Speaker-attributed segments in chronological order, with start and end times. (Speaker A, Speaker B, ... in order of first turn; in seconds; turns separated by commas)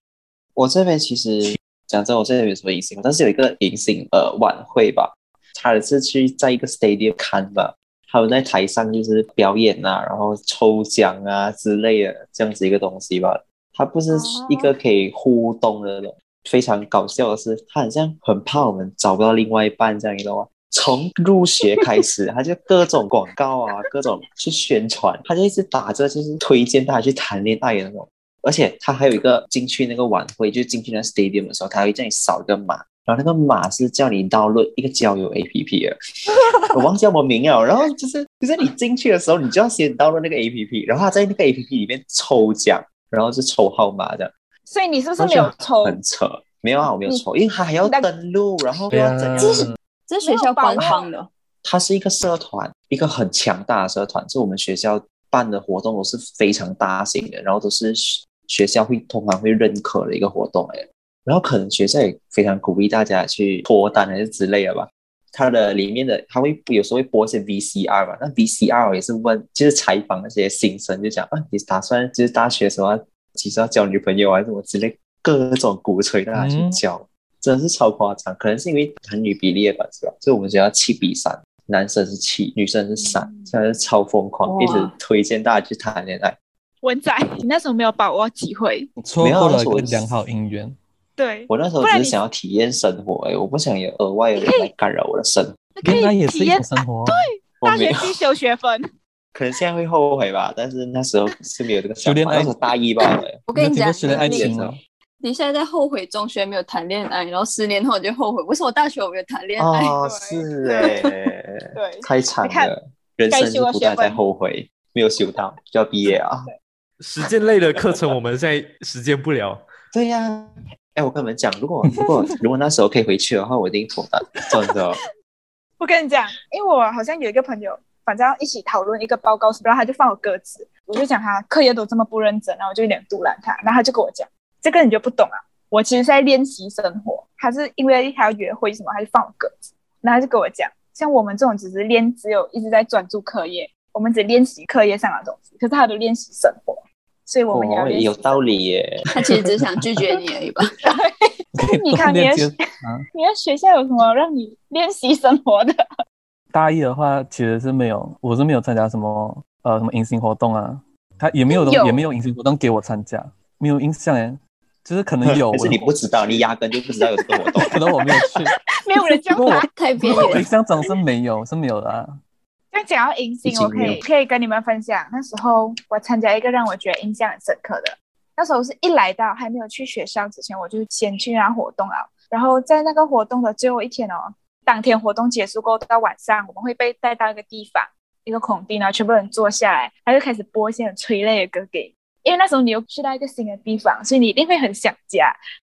Speaker A: 0.6-36.0, Speaker B: 14.1-14.7, Speaker A: 36.7-44.3, Speaker B: 44.6-46.0, Speaker A: 45.2-49.7, Speaker C: 48.9-49.8, Speaker D: 49.4-51.3, Speaker B: 50.2-51.1, Speaker A: 51.6-86.4, Speaker C: 76.3-76.8, Speaker B: 83.0-83.5, Speaker D: 84.4-84.9, Speaker B: 86.8-88.9, Speaker C: 89.0-90.8, Speaker A: 89.2-90.1, Speaker B: 91.2-92.2, Speaker A: 91.5-95.6, Speaker B: 94.4-94.7, Speaker B: 95.8-98.8, Speaker C: 95.8-97.2, Speaker A: 97.6-98.2, Speaker A: 99.3-103.4, Speaker C: 102.0-102.5, Speaker D: 103.5-104.5, Speaker C: 103.5-104.8, Speaker A: 104.0-104.8, Speaker D: 105.2-109.9, Speaker A: 109.6-116.5, Speaker B: 110.0-110.9, Speaker D: 110.8-111.1, Speaker B: 111.8-112.7, Speaker B: 113.3-114.2, Speaker E: 117.0-119.6, Speaker A: 119.9-125.0, Speaker B: 125.8-148.4, Speaker A: 147.5-149.0, Speaker D: 149.1-150.7, Speaker B: 150.8-152.6, Speaker C: 151.6-153.1, Speaker B: 153.1-155.7, Speaker C: 156.5-165.9, Speaker B: 161.5-162.0, Speaker A: 165.2-167.7, Speaker C: 167.7-168.5, Speaker B: 168.8-169.7, Speaker C: 169.3-172.2, Speaker D: 169.7-170.5, Speaker B: 172.7-195.4, Speaker A: 173.5-174.0